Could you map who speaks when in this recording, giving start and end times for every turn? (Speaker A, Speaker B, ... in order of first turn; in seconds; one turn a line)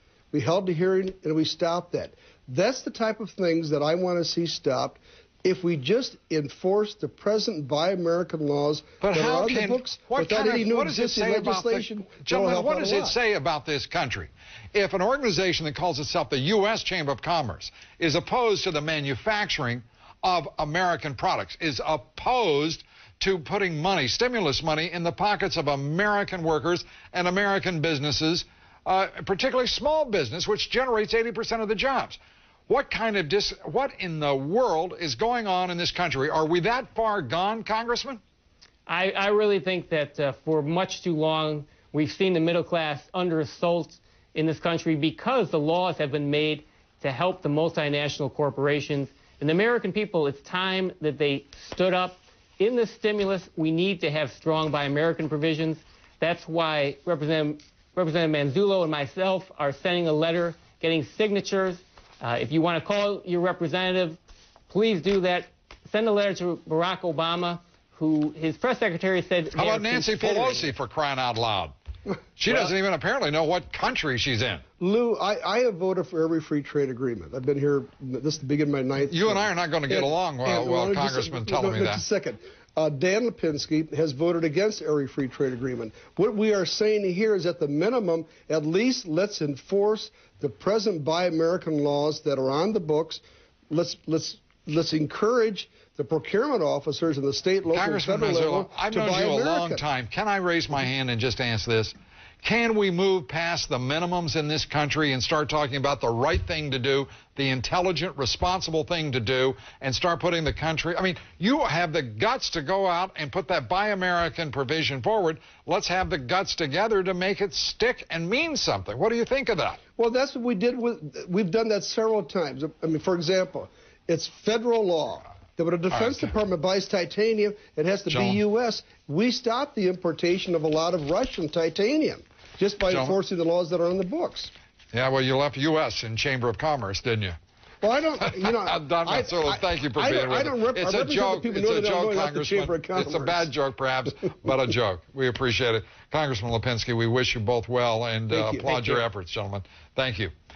Speaker A: 0.3-13.2
Speaker B: 9.0-38.2
Speaker C: 38.9-64.2
Speaker C: 64.7-70.7
Speaker B: 69.5-71.7
Speaker B: 72.4-74.6
Speaker A: 74.8-99.8
Speaker B: 79.1-82.0
Speaker B: 97.7-119.8
Speaker A: 120.0-134.5
Speaker B: 128.1-128.4
Speaker B: 132.9-133.1
Speaker B: 134.9-137.4
Speaker A: 137.8-143.5
Speaker B: 138.2-150.3
Speaker A: 148.3-149.0